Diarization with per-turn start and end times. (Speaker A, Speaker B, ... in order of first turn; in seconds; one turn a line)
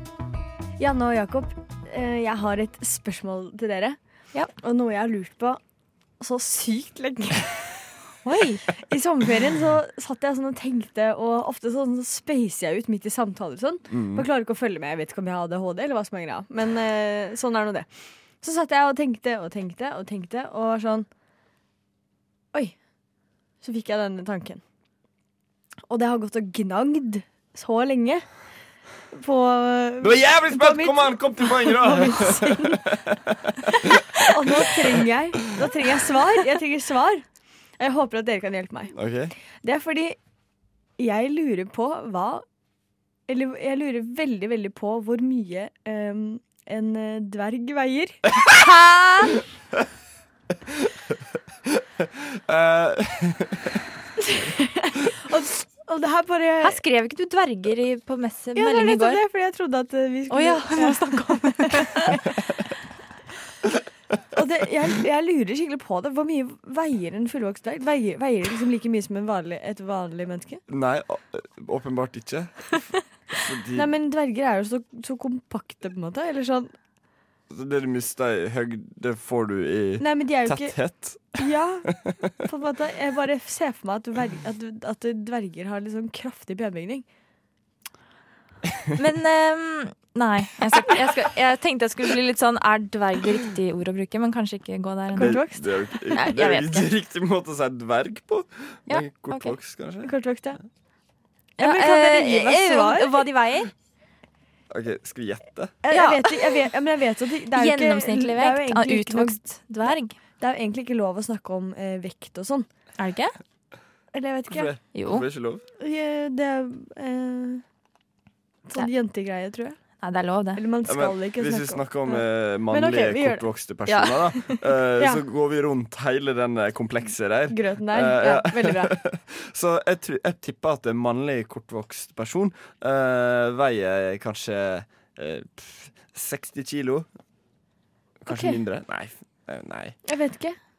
Speaker A: 0.8-4.0
Speaker A: 4.6-5.6
Speaker A: 6.2-7.6
Speaker B: 8.2-8.7
Speaker A: 8.8-17.9
Speaker C: 13.9-14.3
Speaker A: 18.4-21.1
Speaker A: 23.6-24.6
Speaker A: 25.9-28.3
Speaker A: 29.1-32.9
Speaker C: 30.0-33.2
Speaker A: 34.3-37.2
Speaker A: 37.8-38.9
Speaker C: 38.9-39.3
Speaker A: 39.6-40.2
Speaker A: 41.0-42.4
Speaker A: 43.3-49.4
Speaker C: 52.0-53.7
Speaker A: 54.2-56.8
Speaker B: 56.6-59.2
Speaker A: 58.6-62.2
Speaker B: 60.3-62.2
Speaker A: 64.3-70.6
Speaker C: 70.7-73.9
Speaker A: 73.8-76.7
Speaker C: 77.5-81.4
Speaker A: 80.0-80.8
Speaker A: 81.3-81.9
Speaker A: 82.4-87.1
Speaker B: 89.0-95.4
Speaker A: 95.2-95.7
Speaker C: 95.2-100.2
Speaker B: 96.2-96.9
Speaker B: 98.9-99.6
Speaker A: 100.0-100.6
Speaker B: 101.6-103.7
Speaker A: 101.6-103.2
Speaker C: 104.7-105.7
Speaker A: 105.8-109.4
Speaker B: 105.9-106.7
Speaker B: 107.6-110.2
Speaker A: 110.4-112.7
Speaker B: 113.0-113.3
Speaker A: 114.1-114.7
Speaker C: 114.5-115.6
Speaker B: 114.9-115.2
Speaker A: 115.8-117.6
Speaker A: 118.7-119.8
Speaker B: 120.0-120.6
Speaker A: 120.6-123.5
Speaker C: 120.9-137.1
Speaker A: 124.0-125.2
Speaker A: 127.5-129.0
Speaker C: 138.2-140.0
Speaker A: 138.3-138.6
Speaker A: 140.1-140.6